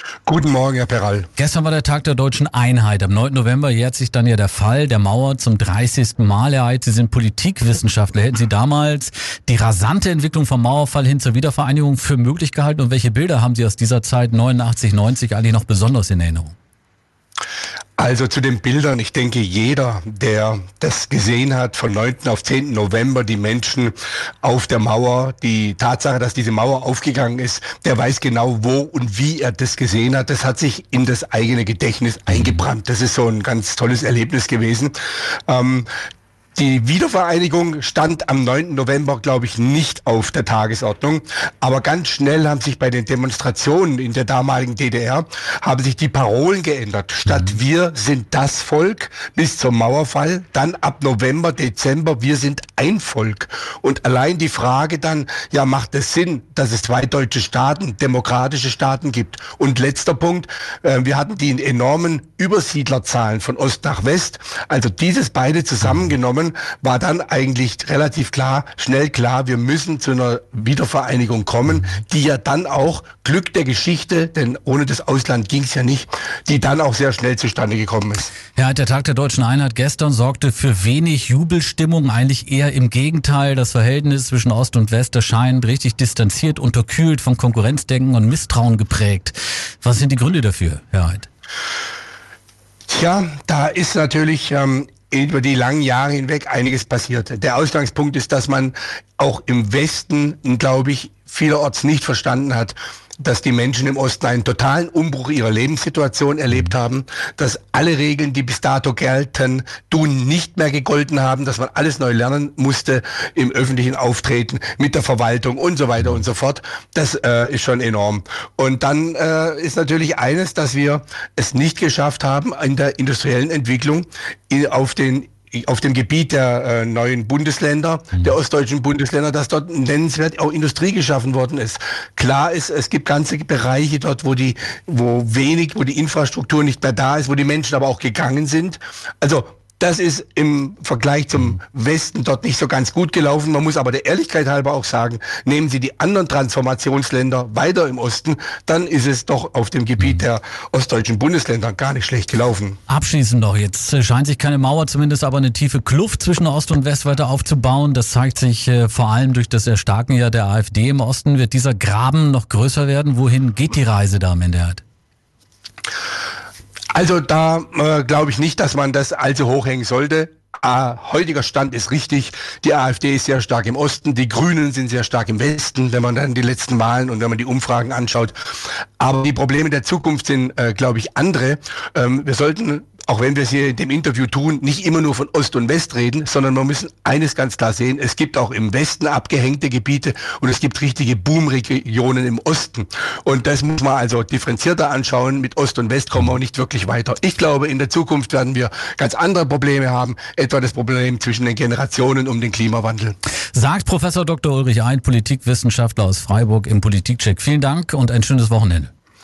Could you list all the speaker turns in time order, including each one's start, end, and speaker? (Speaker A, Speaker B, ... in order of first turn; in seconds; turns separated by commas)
Speaker A: 0.2-1.3, Speaker B: 1.4-16.6, Speaker A: 18.0-34.9, Speaker B: 32.3-32.6, Speaker A: 35.5-35.9, Speaker A: 36.6-78.3, Speaker B: 78.5-91.3, Speaker A: 92.9-152.8, Speaker B: 152.9-164.8, Speaker A: 166.9-178.3, Speaker A: 179.0-203.2, Speaker B: 203.5-208.9